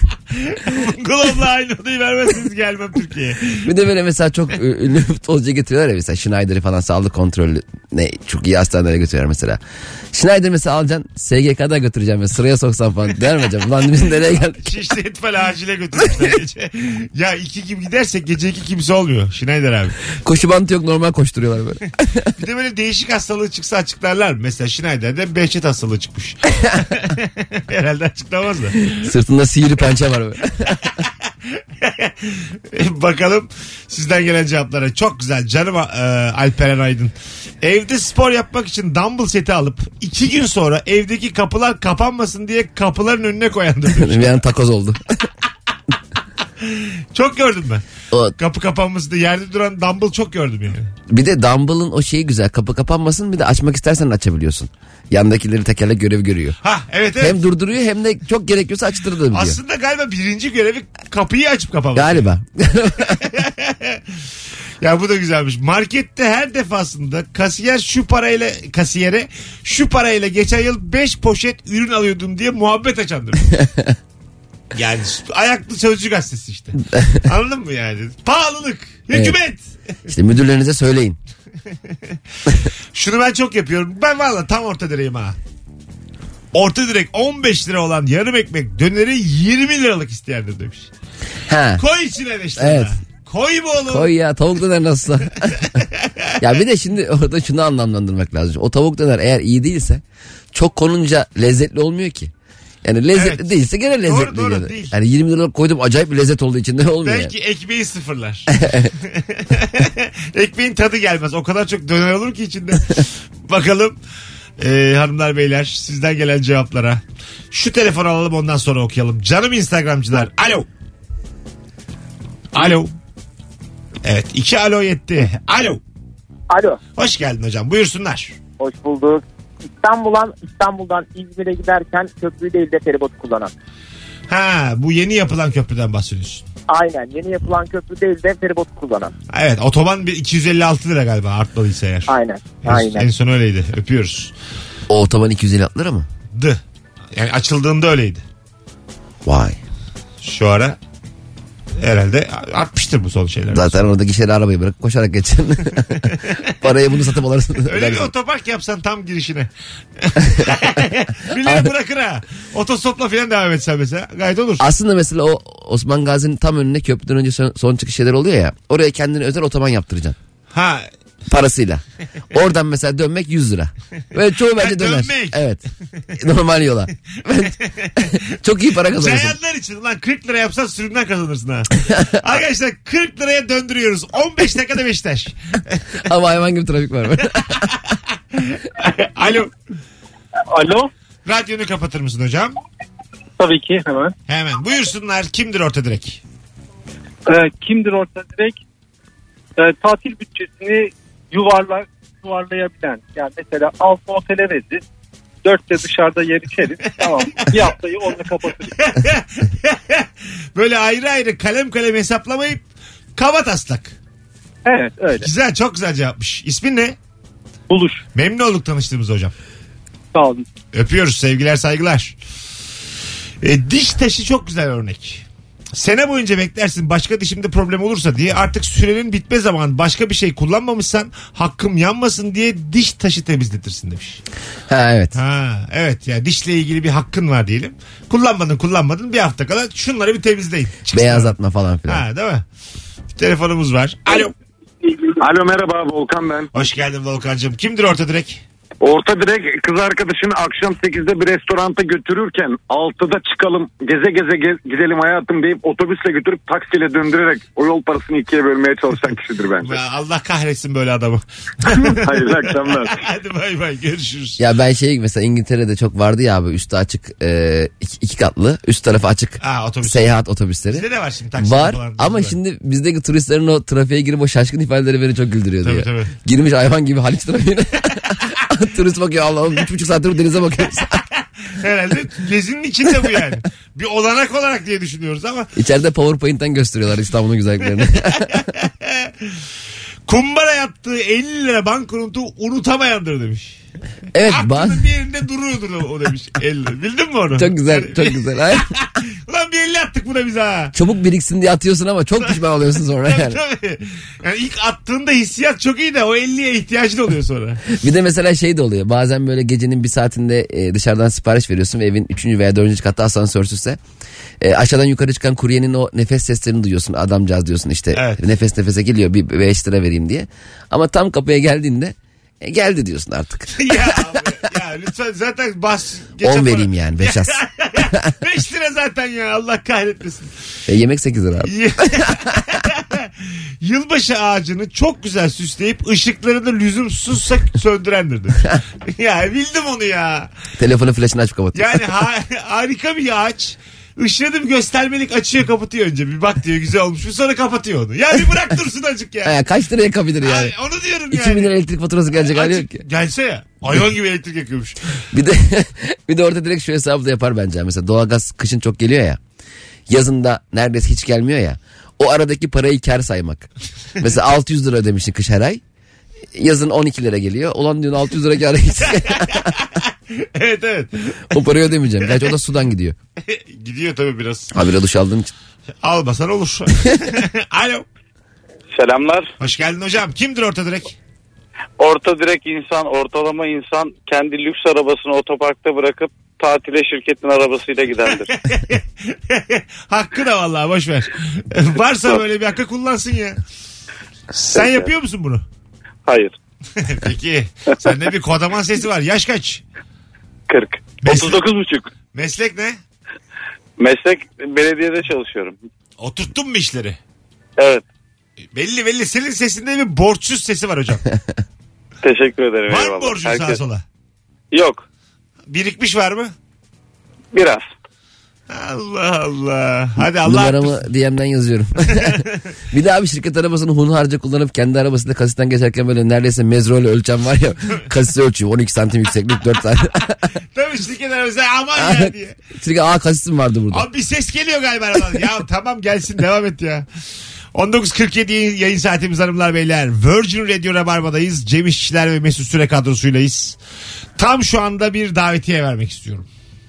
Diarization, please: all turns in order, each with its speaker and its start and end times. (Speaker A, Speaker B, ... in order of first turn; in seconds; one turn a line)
Speaker A: 0.3-3.7
Speaker B: 3.6-9.6
Speaker B: 10.1-14.7
Speaker A: 14.6-20.0
Speaker B: 20.2-22.3
Speaker A: 22.4-29.1
Speaker B: 29.0-30.9
Speaker A: 31.8-44.4
Speaker B: 43.9-45.2
Speaker A: 46.6-47.8
Speaker A: 48.4-50.9
Speaker B: 51.1-56.6
Speaker A: 56.6-57.4
Speaker B: 57.2-59.6
Speaker A: 59.3-62.3
Speaker B: 62.0-63.3
Speaker A: 63.1-64.0
Speaker A: 64.8-73.5
Speaker B: 73.6-74.0
Speaker A: 74.7-79.7
Speaker B: 76.9-77.2
Speaker B: 79.1-79.4
Speaker B: 80.1-81.2
Speaker A: 82.9-85.4
Speaker A: 86.5-90.9
Speaker B: 91.5-91.8
Speaker A: 91.8-94.1
Speaker B: 92.6-92.9
Speaker B: 93.9-95.7
Speaker A: 95.8-96.1
Speaker B: 96.4-102.3
Speaker B: 102.8-107.3
Speaker A: 103.1-103.5
Speaker A: 104.0-104.9
Speaker A: 107.0-108.5
Speaker B: 108.5-108.9
Speaker A: 109.0-114.0
Speaker A: 114.6-120.7
Speaker A: 122.5-122.9
Speaker A: 124.0-125.8
Speaker C: 126.5-126.8
Speaker A: 127.0-128.4
Speaker C: 128.6-129.2
Speaker C: 129.8-133.5
Speaker A: 134.3-136.4
Speaker C: 136.7-139.1
Speaker A: 139.3-142.1
Speaker C: 142.1-143.1
Speaker A: 142.6-144.3
Speaker B: 144.9-146.1
Speaker A: 146.3-146.6
Speaker A: 147.1-148.2
Speaker B: 149.2-149.6
Speaker A: 150.2-150.8
Speaker A: 151.8-153.9
Speaker B: 153.5-158.1
Speaker A: 157.6-164.7
Speaker B: 161.4-161.7
Speaker B: 164.6-170.2
Speaker A: 170.5-170.9
Speaker B: 171.3-175.6
Speaker A: 174.6-175.4
Speaker B: 176.2-179.4
Speaker A: 177.6-178.2
Speaker A: 178.8-186.0
Speaker B: 186.1-187.7
Speaker A: 188.4-189.5
Speaker D: 190.5-190.9
Speaker A: 191.3-192.6
Speaker D: 193.4-194.2
Speaker A: 194.3-196.2
Speaker D: 197.3-198.6
Speaker D: 199.6-204.8
Speaker D: 205.4-208.9
Speaker A: 207.4-207.6
Speaker A: 208.8-212.6
Speaker A: 213.2-214.0
Speaker D: 214.7-215.3
Speaker A: 215.2-217.0
Speaker D: 217.7-218.0
Speaker A: 218.2-219.3
Speaker D: 220.1-220.5
Speaker A: 220.7-222.2
Speaker A: 223.4-234.2
Speaker B: 234.7-235.2
Speaker A: 235.1-241.3
Speaker B: 240.9-242.0
Speaker A: 241.9-242.4
Speaker A: 243.2-244.3
Speaker E: 245.2-246.5
Speaker A: 246.5-248.4
Speaker E: 248.8-259.8
Speaker A: 259.6-264.4
Speaker E: 261.9-262.9
Speaker B: 264.4-270.9
Speaker A: 269.4-270.2
Speaker A: 270.7-272.4
Speaker B: 271.4-281.0
Speaker A: 275.6-276.1
Speaker A: 281.6-285.5
Speaker B: 285.6-288.4
Speaker A: 288.6-289.1
Speaker A: 290.1-293.6
Speaker B: 294.1-294.9
Speaker A: 294.3-300.8
Speaker B: 297.4-298.7
Speaker B: 300.7-303.4
Speaker A: 303.0-307.6
Speaker B: 307.7-313.8
Speaker B: 314.4-324.0
Speaker A: 317.9-318.2
Speaker A: 323.6-330.3
Speaker B: 326.2-328.1
Speaker B: 330.7-332.6
Speaker A: 331.4-333.1
Speaker A: 333.6-340.3
Speaker B: 340.6-341.9
Speaker A: 341.5-349.4
Speaker B: 349.2-350.5
Speaker A: 350.2-351.5
Speaker B: 351.1-352.8
Speaker A: 352.1-354.8
Speaker B: 355.1-359.2
Speaker B: 359.9-363.5
Speaker B: 364.0-365.6
Speaker B: 366.3-369.5
Speaker A: 368.8-371.4
Speaker B: 371.3-373.0
Speaker A: 373.3-374.5
Speaker B: 374.5-375.3
Speaker A: 375.8-377.9
Speaker F: 378.7-379.3
Speaker A: 379.4-381.0
Speaker F: 381.8-388.3
Speaker A: 388.3-393.4
Speaker F: 394.4-394.9
Speaker A: 394.5-395.4
Speaker F: 396.1-396.4
Speaker A: 396.8-399.6
Speaker F: 400.5-401.9
Speaker A: 401.0-401.4
Speaker A: 402.1-402.8
Speaker F: 403.8-405.6
Speaker A: 406.0-407.0
Speaker F: 407.6-407.8
Speaker A: 408.6-411.0
Speaker F: 412.0-413.6
Speaker A: 412.7-413.8
Speaker F: 414.5-414.9
Speaker A: 415.5-416.3
Speaker F: 417.3-417.7
Speaker A: 418.5-420.8
Speaker B: 420.2-430.2
Speaker A: 422.0-422.4
Speaker A: 430.6-432.4
Speaker B: 431.8-433.9
Speaker A: 433.7-436.9
Speaker A: 437.5-443.6
Speaker A: 444.2-446.3